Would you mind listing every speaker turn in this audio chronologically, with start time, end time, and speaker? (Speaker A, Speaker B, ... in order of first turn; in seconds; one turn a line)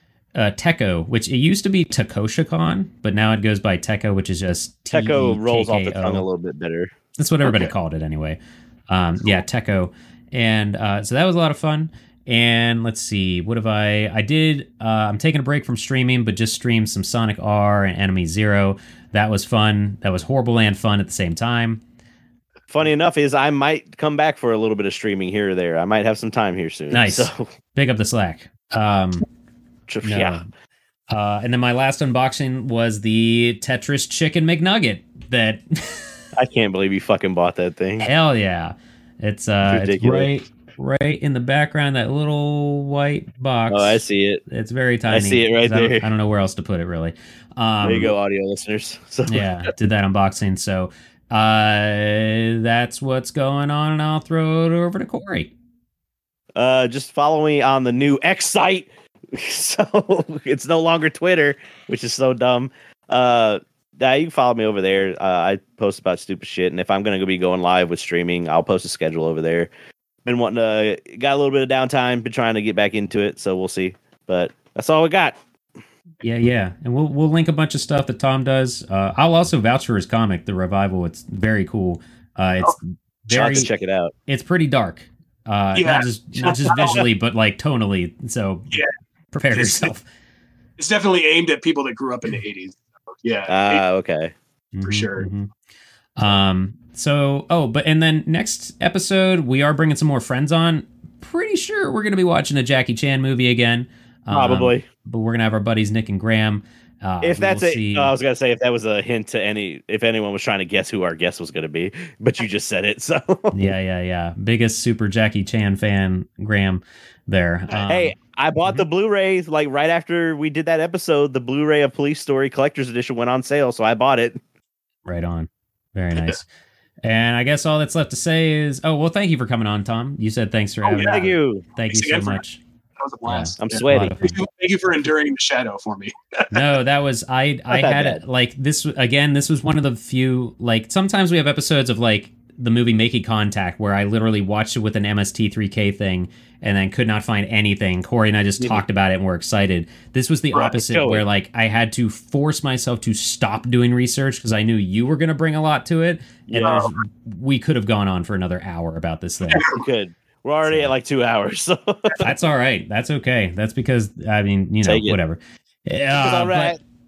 Speaker A: 0.3-6.2
Speaker B: 4.9-6.9
Speaker A: 7.2-21.8
Speaker B: 22.7-27.5
Speaker A: 26.9-29.2
Speaker B: 29.9-30.4
Speaker A: 30.0-30.4
Speaker A: 31.1-36.1
Speaker B: 36.4-38.1
Speaker A: 38.0-48.1
Speaker B: 39.6-40.3
Speaker B: 43.7-44.4
Speaker B: 45.1-46.1
Speaker B: 47.8-49.4
Speaker A: 49.3-55.5
Speaker B: 56.5-69.7
Speaker B: 70.2-75.4
Speaker A: 76.2-83.7
Speaker B: 83.3-84.1
Speaker A: 84.3-88.8
Speaker C: 85.7-87.0
Speaker A: 89.3-90.0
Speaker C: 89.5-89.9
Speaker C: 90.8-93.8
Speaker B: 93.5-94.3
Speaker A: 94.7-95.5
Speaker C: 94.8-95.3
Speaker A: 96.2-108.1
Speaker B: 104.3-104.8
Speaker B: 107.2-113.7
Speaker A: 113.5-118.8
Speaker B: 117.9-124.4
Speaker A: 125.0-126.5
Speaker A: 127.0-132.6
Speaker B: 130.8-131.7
Speaker C: 130.9-131.2
Speaker C: 131.8-132.4
Speaker C: 133.0-136.6
Speaker A: 133.2-134.3
Speaker B: 133.6-134.2
Speaker A: 136.5-159.7
Speaker B: 137.7-138.2
Speaker B: 150.7-151.2
Speaker B: 156.5-156.9
Speaker C: 156.6-156.9
Speaker C: 159.5-159.8
Speaker B: 159.7-162.3
Speaker A: 160.6-160.9
Speaker A: 162.2-166.8
Speaker B: 164.8-165.2
Speaker B: 166.1-166.8